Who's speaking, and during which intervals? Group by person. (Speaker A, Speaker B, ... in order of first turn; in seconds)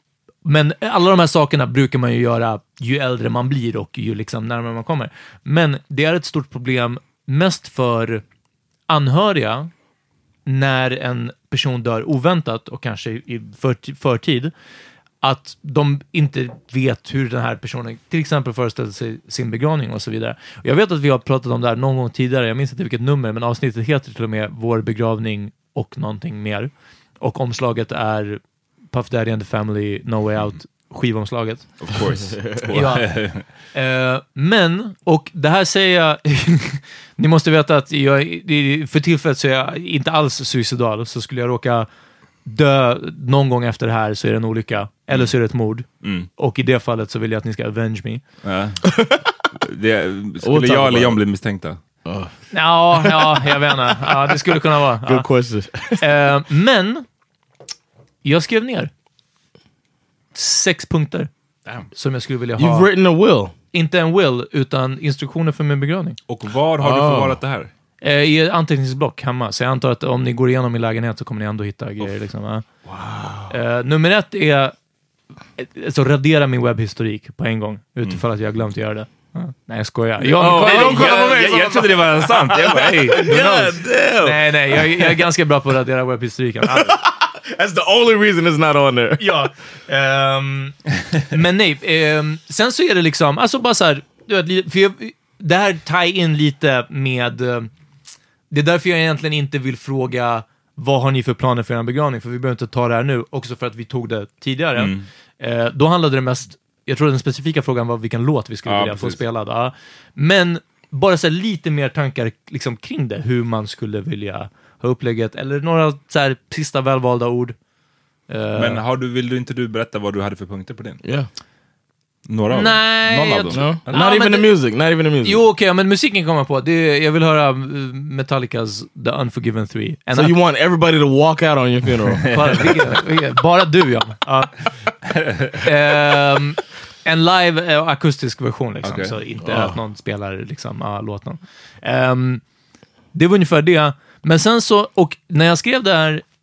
Speaker A: 0.5-8.2, 8.9-9.7, 10.5-14.5, 15.2-28.4, 28.9-31.7, 32.7-33.2, 33.7-41.9, 42.5-45.9, 46.4-48.2, 52.5-55.3, 56.0-57.0, 58.2-58.9, 60.4-61.3, 61.9-62.9, 63.7-66.2, 68.0-72.7, 73.5-74.7, 75.6-81.9, 82.8-87.0, 89.2-90.8, 91.3-97.7, 98.5-117.6, 118.3-118.8, 122.5-124.5, 125.2-130.3, 132.3-134.5, 135.6-142.4, 143.1-146.2
Speaker B: 31.8-33.4, 46.0-46.3, 48.4-48.9, 49.6-51.8, 66.3-67.7, 80.4-83.3, 104.8-105.1, 108.7-109.2, 118.5-121.0, 122.3-123.9, 132.2-132.8, 135.1-135.6, 138.8-139.2
Speaker C: 32.3-32.7, 48.8-49.3, 50.4-51.2, 52.0-52.3, 52.9-56.1, 62.6-63.5, 66.8-67.4, 72.9-73.5, 80.2-85.2, 86.6-89.3, 123.5-125.4, 130.1-132.4, 139.4-139.8